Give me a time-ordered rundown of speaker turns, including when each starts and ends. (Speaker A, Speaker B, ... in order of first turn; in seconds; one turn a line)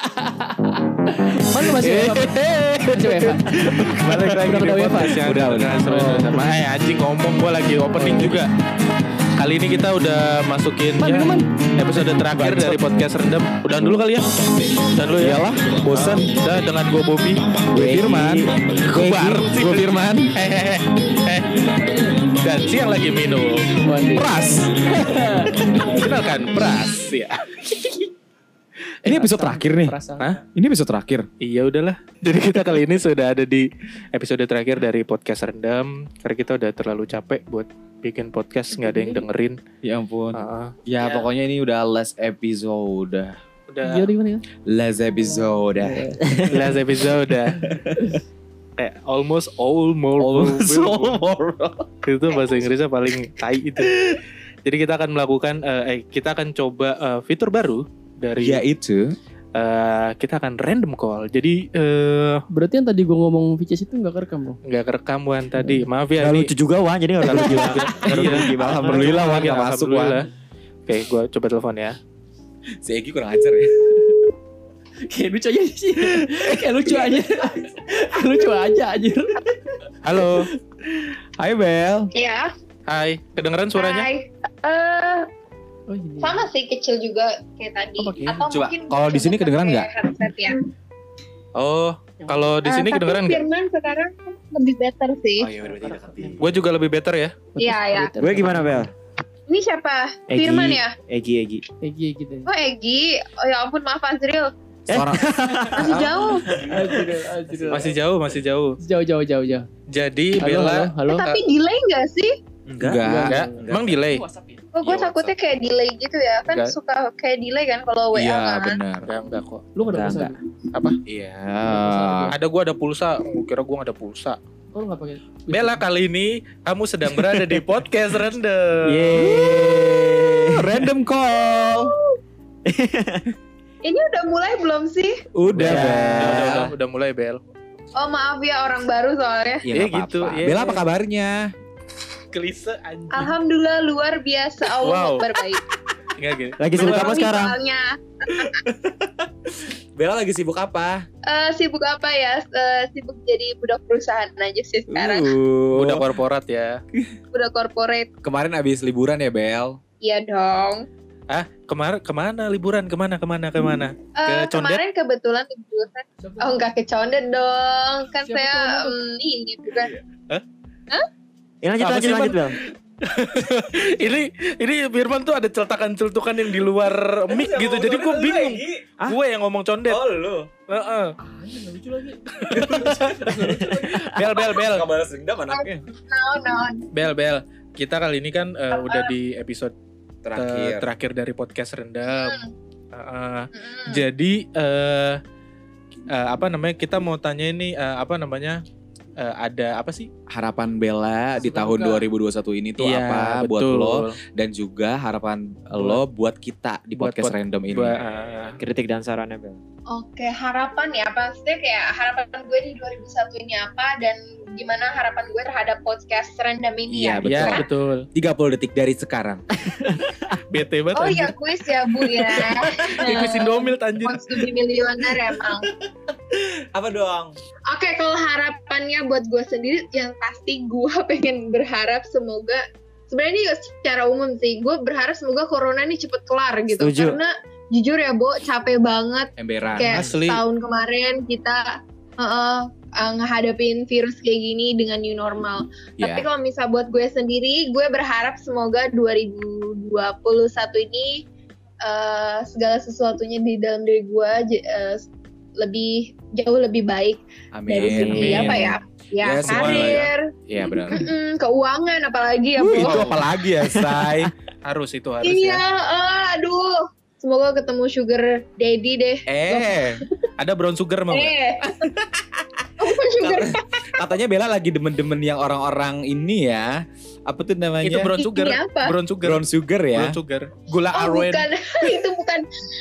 Speaker A: 0.2-0.5
Speaker A: 1.5-3.5
Speaker B: 1.8-8.5
Speaker C: 3.6-6.4
Speaker A: 4.4-5.3
Speaker A: 5.9-6.4
Speaker C: 8.0-8.3
Speaker B: 9.4-14.4
Speaker A: 11.0-11.4
Speaker C: 11.1-11.3
Speaker C: 11.9-12.8
Speaker B: 14.9-23.8
Speaker C: 15.2-16.4
Speaker C: 17.7-20.3
Speaker D: 17.8-18.2
Speaker A: 23.8-24.3
Speaker C: 24.1-24.7
Speaker A: 24.9-25.6
Speaker B: 25.6-27.9
Speaker C: 29.1-30.0
Speaker A: 29.1-30.4
Speaker C: 30.5-31.3
Speaker B: 31.4-39.6
Speaker A: 38.7-39.2
Speaker C: 39.8-43.4
Speaker B: 40.3-40.7
Speaker A: 41.0-41.3
Speaker B: 43.7-44.1
Speaker A: 43.8-44.4
Speaker C: 44.7-46.1
Speaker A: 45.8-46.1
Speaker D: 46.2-46.5
Speaker B: 46.5-47.6
Speaker A: 48.0-48.2
Speaker B: 48.8-51.2
Speaker C: 50.2-51.9
Speaker B: 52.0-58.6
Speaker C: 58.4-59.0
Speaker B: 59.5-62.4
Speaker A: 62.5-64.6
Speaker B: 64.7-66.5
Speaker D: 66.2-69.4
Speaker B: 67.2-70.3
Speaker C: 67.2-70.2
Speaker B: 70.9-72.0
Speaker C: 72.8-73.7
Speaker A: 75.0-79.4
Speaker C: 76.2-77.2
Speaker B: 80.0-80.4
Speaker C: 80.1-80.4
Speaker C: 81.4-82.1
Speaker E: 82.1-82.5
Speaker B: 82.9-84.0
Speaker E: 83.8-85.3
Speaker A: 85.9-86.4
Speaker E: 86.2-90.6
Speaker A: 88.0-88.4
Speaker C: 88.4-89.9
Speaker B: 91.6-93.4
Speaker A: 92.2-92.5
Speaker E: 92.7-95.5
Speaker C: 95.4-96.6
Speaker A: 95.7-96.4
Speaker B: 96.4-97.3
Speaker A: 97.5-98.8
Speaker E: 97.6-98.1
Speaker D: 98.2-98.9
Speaker E: 99.5-100.9
Speaker D: 100.3-101.6
Speaker A: 101.8-102.5
Speaker E: 102.5-104.5
Speaker D: 104.9-105.9
Speaker C: 104.9-107.9
Speaker E: 105.8-106.4
Speaker D: 106.5-107.0
Speaker A: 106.6-108.0
Speaker B: 107.7-108.8
Speaker A: 108.8-109.7
Speaker B: 109.9-110.9
Speaker A: 110.4-111.4
Speaker E: 111.1-112.3
Speaker C: 112.7-113.3
Speaker D: 112.8-114.0
Speaker A: 112.9-114.6
Speaker B: 113.3-114.2
Speaker E: 114.8-118.8
Speaker C: 114.8-115.3
Speaker C: 118.1-119.1
Speaker B: 119.0-119.7
Speaker A: 119.7-120.3
Speaker D: 119.8-120.3
Speaker C: 121.1-122.3
Speaker A: 121.7-122.3
Speaker B: 122.3-124.4
Speaker A: 124.7-125.8
Speaker B: 125.5-129.1
Speaker D: 128.9-130.9
Speaker C: 129.2-131.9
Speaker D: 132.7-133.2
Speaker E: 133.8-135.2
Speaker C: 135.3-136.7
Speaker D: 135.5-136.7
Speaker B: 135.5-137.4
Speaker E: 138.0-139.6
Speaker C: 139.6-141.4
Speaker B: 139.7-140.8
Speaker B: 142.3-143.3
Speaker E: 143.1-145.6
Speaker B: 144.8-145.3
Speaker B: 146.2-146.6
Speaker D: 146.6-147.6
Speaker E: 146.7-148.5
Speaker C: 148.6-151.0
Speaker E: 151.3-155.3
Speaker C: 154.9-156.1
Speaker B: 155.7-156.8
Speaker E: 157.3-158.1
Speaker C: 158.2-159.8
Speaker E: 160.0-160.8
Speaker B: 161.3-164.8
Speaker E: 164.2-169.9
Speaker A: 166.2-166.6
Speaker A: 168.2-169.0
Speaker D: 171.6-172.6
Speaker B: 171.8-180.0
Speaker C: 177.3-178.9
Speaker C: 179.9-180.5
Speaker B: 180.7-181.1
Speaker A: 181.2-182.3
Speaker B: 182.4-184.8
Speaker C: 182.5-185.8
Speaker E: 185.5-186.8
Speaker B: 186.9-189.7
Speaker E: 188.7-189.1
Speaker C: 190.2-190.9
Speaker B: 190.3-192.4
Speaker E: 192.1-192.5
Speaker B: 192.9-195.2
Speaker E: 193.5-194.0
Speaker B: 196.1-198.6
Speaker B: 199.2-200.1
Speaker C: 200.3-208.0
Speaker A: 201.4-202.0
Speaker B: 202.8-204.1
Speaker B: 207.0-208.6
Speaker D: 208.6-209.6
Speaker E: 209.9-217.6
Speaker C: 216.9-219.4
Speaker B: 217.2-218.1
Speaker D: 219.8-220.4
Speaker B: 220.5-221.3
Speaker E: 220.9-225.7
Speaker B: 222.3-224.4
Speaker C: 226.7-227.3
Speaker E: 227.7-241.7
Speaker D: 236.8-237.2
Speaker C: 239.4-240.0
Speaker B: 239.8-240.4
Speaker E: 242.2-251.2
Speaker C: 246.0-246.2
Speaker E: 251.8-260.3
Speaker C: 257.5-258.6
Speaker B: 257.9-258.7
Speaker C: 259.2-261.0
Speaker B: 259.4-260.1
Speaker E: 260.9-263.0
Speaker C: 262.6-264.3
Speaker B: 262.7-264.0
Speaker B: 264.6-265.6
Speaker E: 265.2-269.8
Speaker C: 269.3-270.0
Speaker B: 270.4-271.3
Speaker E: 271.1-271.7
Speaker E: 272.8-273.8
Speaker C: 273.0-278.1
Speaker B: 277.8-281.5
Speaker E: 278.2-278.9
Speaker C: 279.2-280.2
Speaker E: 280.9-282.4